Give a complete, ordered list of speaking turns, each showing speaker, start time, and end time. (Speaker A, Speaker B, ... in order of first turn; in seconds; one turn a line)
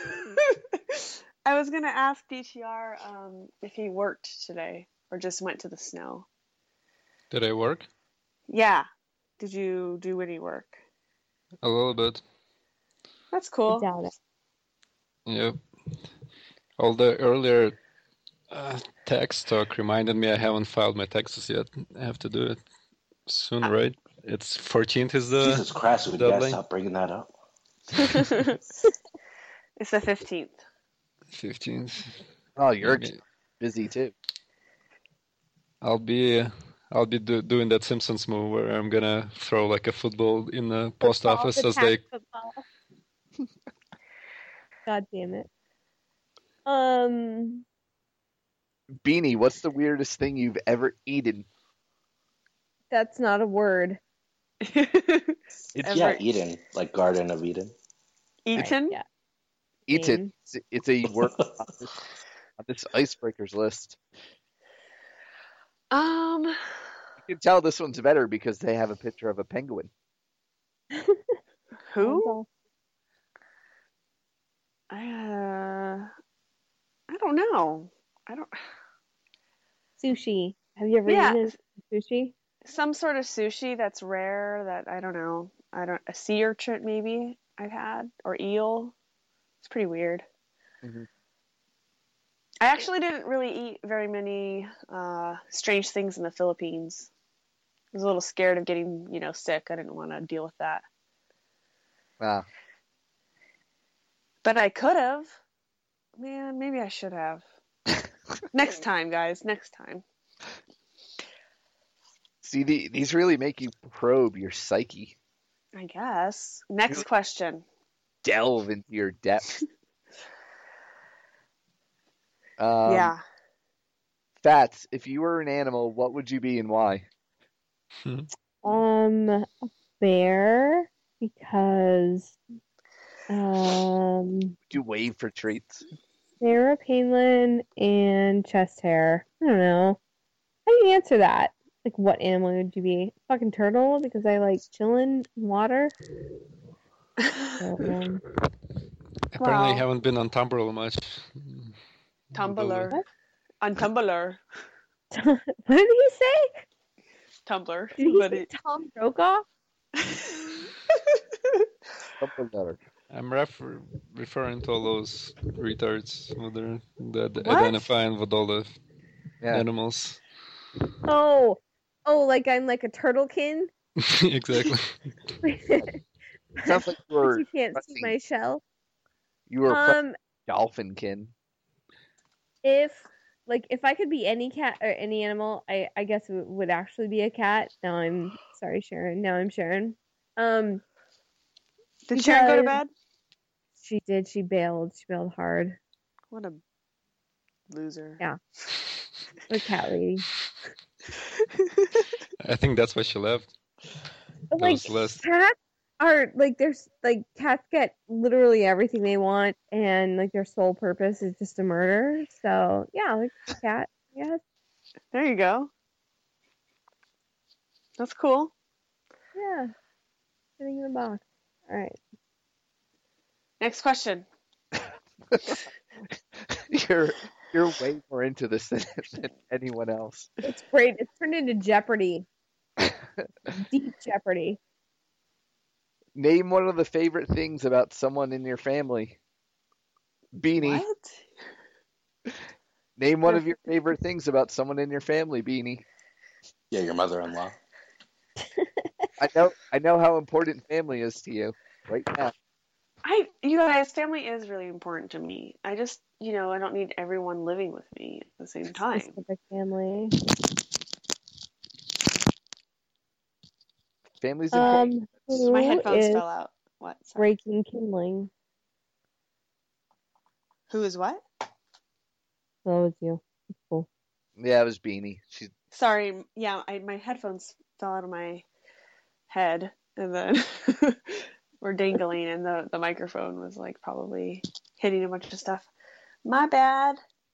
Speaker A: 0.5-6.3
Speaker B: 7.3-7.9
Speaker A: 8.5-8.9
Speaker A: 9.4-10.8
Speaker B: 11.6-12.2
Speaker A: 13.3-13.9
Speaker C: 13.7-14.1
Speaker B: 15.2-15.6
Speaker B: 16.8-17.8
Speaker B: 18.5-22.6
Speaker B: 23.3-26.6
Speaker D: 25.4-27.3
Speaker A: 28.0-28.6
Speaker A: 29.8-30.6
Speaker B: 31.3-32.2
Speaker E: 32.6-34.1
Speaker B: 32.8-33.1
Speaker B: 35.8-42.0
Speaker C: 41.0-42.6
Speaker C: 44.9-45.5
Speaker C: 46.6-47.6
Speaker E: 49.0-51.5
Speaker C: 52.9-54.0
Speaker A: 54.6-56.2
Speaker D: 55.9-57.7
Speaker A: 58.4-59.0
Speaker C: 58.5-59.0
Speaker E: 59.9-61.9
Speaker C: 59.9-60.3
Speaker D: 61.1-61.5
Speaker E: 62.6-64.0
Speaker A: 65.9-66.6
Speaker E: 67.2-69.9
Speaker C: 70.9-71.4
Speaker A: 71.9-72.4
Speaker C: 72.0-72.5
Speaker A: 74.9-76.1
Speaker A: 77.1-78.6
Speaker C: 80.0-82.3
Speaker A: 81.0-81.6
Speaker A: 82.6-88.9
Speaker A: 89.6-90.2
Speaker A: 92.6-97.1
Speaker A: 97.9-100.8
Speaker E: 102.2-102.5
Speaker A: 104.4-105.3
Speaker A: 106.2-107.4
Speaker A: 108.5-110.0
Speaker E: 112.4-115.1
Speaker A: 115.7-117.6
Speaker E: 118.2-119.5
Speaker E: 122.6-123.1
Speaker A: 122.8-123.2
Speaker E: 124.4-127.0
Speaker C: 128.6-132.4
Speaker C: 133.3-134.6
Speaker E: 134.7-135.8
Speaker C: 136.4-140.0
Speaker C: 140.7-145.9
Speaker C: 147.6-148.2
Speaker B: 149.3-151.7
Speaker A: 149.4-149.8
Speaker B: 152.3-152.9
Speaker A: 152.3-153.0
Speaker A: 153.6-154.4
Speaker C: 155.1-156.6
Speaker A: 157.4-158.5
Speaker C: 158.0-159.4
Speaker A: 160.0-160.4
Speaker E: 162.2-162.8
Speaker B: 163.1-168.8
Speaker A: 167.4-167.9
Speaker B: 169.5-170.2
Speaker C: 171.1-173.7
Speaker B: 174.0-174.9
Speaker C: 175.4-176.0
Speaker E: 176.6-178.1
Speaker C: 176.7-178.6
Speaker E: 179.5-181.3
Speaker C: 179.7-180.2
Speaker C: 182.6-190.8
Speaker A: 192.1-192.9
Speaker C: 192.1-192.8
Speaker C: 193.8-195.8
Speaker A: 196.3-196.6
Speaker A: 197.7-198.2
Speaker C: 199.5-200.2
Speaker B: 202.4-203.5
Speaker C: 204.5-214.4
Speaker B: 204.6-205.2
Speaker A: 215.1-215.7
Speaker A: 218.0-218.5
Speaker C: 219.3-219.7
Speaker C: 220.6-222.0
Speaker A: 223.6-224.2
Speaker E: 226.5-230.3
Speaker C: 230.4-232.2
Speaker C: 233.5-234.6
Speaker E: 236.2-239.2
Speaker E: 240.3-240.8
Speaker A: 240.6-241.3
Speaker E: 243.0-245.8
Speaker D: 246.7-247.6
Speaker C: 248.6-249.1
Speaker E: 249.2-252.3
Speaker A: 253.0-259.2
Speaker C: 258.9-260.1
Speaker E: 264.2-265.7
Speaker C: 264.5-266.2
Speaker A: 265.4-267.3
Speaker C: 267.2-268.3
Speaker A: 270.7-271.2
Speaker C: 272.6-273.9
Speaker E: 274.4-275.5
Speaker A: 275.7-278.4
Speaker A: 279.3-285.7
Speaker A: 286.2-287.0